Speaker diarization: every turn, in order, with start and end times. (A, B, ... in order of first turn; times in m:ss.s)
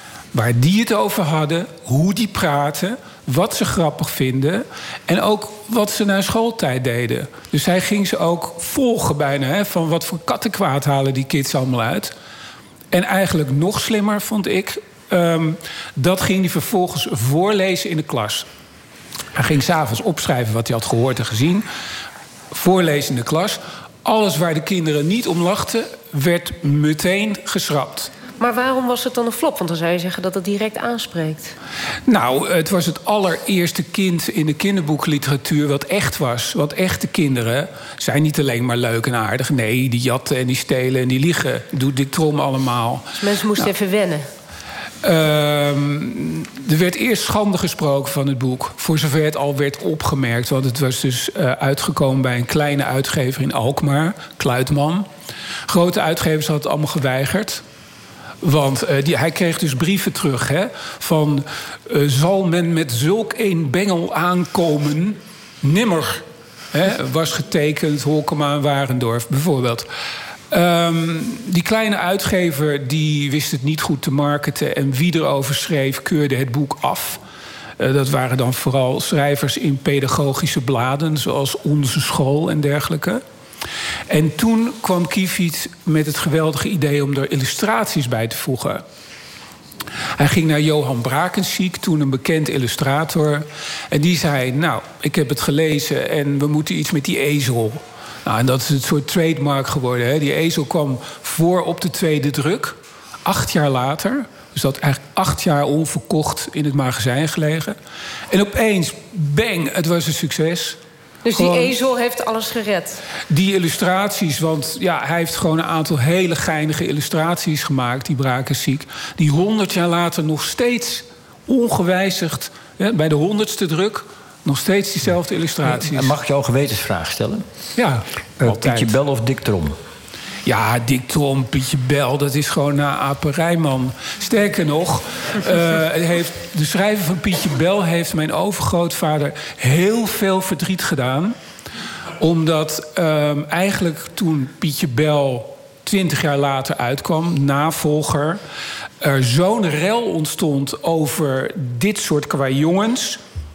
0:00.3-0:12.1 A
0:12.9-0:18.5 A
0:19.3-0:21.6 A
0:22.5-0:28.1 A
0:28.4-0:31.5 B
0:32.1-0:43.7 A
0:43.2-0:44.2 B
0:45.0-0:55.1 A
0:55.7-0:57.6 A
0:58.4-1:09.9 A
1:10.5-1:17.2 A
1:17.8-1:23.2 A
1:24.1-1:28.8 A
1:30.2-1:47.8 A
1:48.3-1:50.8 A
1:51.2-1:53.0 B
1:51.3-1:51.7 A
1:53.3-2:06.1 A
2:05.6-2:07.4 C
2:07.8-2:09.0 A
2:08.4-2:09.8 C
2:10.4-2:21.4 A
2:22.2-2:28.4 A
2:29.0-2:33.2 A